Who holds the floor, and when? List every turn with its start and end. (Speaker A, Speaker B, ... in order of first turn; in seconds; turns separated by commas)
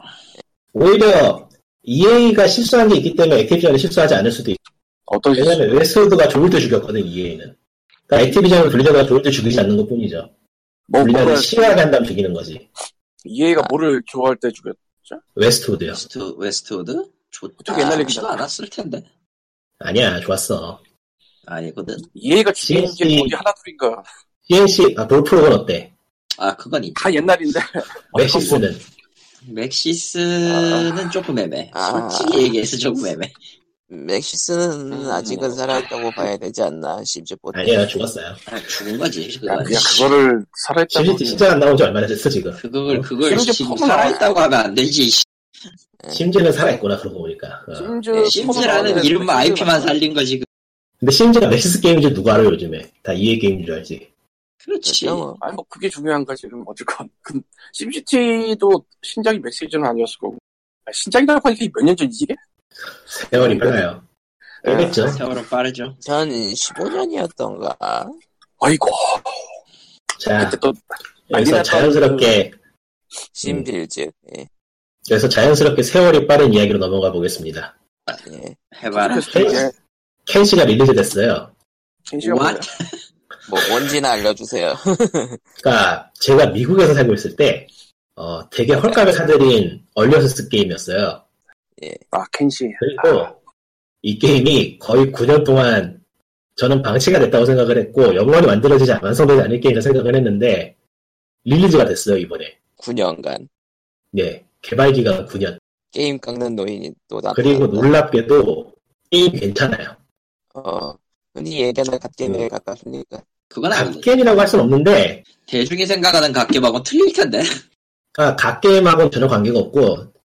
Speaker A: 0.7-4.6, Speaker B: 5.1-5.7, Speaker A: 5.3-7.5, Speaker A: 8.1-10.3, Speaker B: 10.9-11.8, Speaker A: 11.0-12.7, Speaker B: 13.2-15.2, Speaker A: 15.3-16.0, Speaker C: 15.9-19.0, Speaker B: 17.6-18.4, Speaker A: 19.8-20.8, Speaker C: 21.4-22.1, Speaker B: 22.1-24.0, Speaker A: 22.6-23.4, Speaker A: 24.5-25.9, Speaker C: 26.4-27.3, Speaker B: 27.0-28.6, Speaker A: 28.1-28.8, Speaker C: 29.4-33.3, Speaker B: 30.4-31.0, Speaker D: 31.7-32.5, Speaker D: 33.9-38.0, Speaker C: 34.9-35.6, Speaker A: 37.5-38.4, Speaker C: 38.5-40.1, Speaker B: 39.5-41.5, Speaker A: 40.9-43.1, Speaker C: 42.6-45.2, Speaker B: 43.2-44.3, Speaker D: 46.0-46.3, Speaker A: 46.1-48.0, Speaker B: 47.7-49.9, Speaker C: 48.1-50.5, Speaker D: 48.2-49.2, Speaker A: 51.0-54.1, Speaker C: 54.6-55.3, Speaker D: 54.8-55.4, Speaker B: 55.4-62.4, Speaker A: 63.1-64.0, Speaker B: 63.3-63.7, Speaker B: 64.6-65.0, Speaker A: 64.6-65.2, Speaker C: 64.9-66.0, Speaker D: 66.0-68.1, Speaker B: 68.6-69.4, Speaker A: 70.2-70.6, Speaker B: 70.4-72.3, Speaker A: 71.3-72.5, Speaker D: 73.3-74.5, Speaker A: 75.1-77.7, Speaker D: 78.1-78.6, Speaker C: 78.7-79.7, Speaker B: 78.9-79.7, Speaker A: 79.3-79.7, Speaker A: 80.2-81.5, Speaker B: 82.1-82.7, Speaker C: 82.2-83.0, Speaker D: 83.5-85.4, Speaker A: 85.6-91.2, Speaker B: 92.1-93.3, Speaker A: 92.8-93.3, Speaker A: 94.0-96.0, Speaker A: 96.6-100.7, Speaker A: 101.4-102.5, Speaker D: 102.8-103.5, Speaker A: 104.1-105.6, Speaker D: 105.9-107.9, Speaker A: 107.3-110.0, Speaker D: 110.5-113.2, Speaker C: 113.5-114.1, Speaker A: 113.7-115.2, Speaker C: 115.5-117.6, Speaker A: 118.1-120.1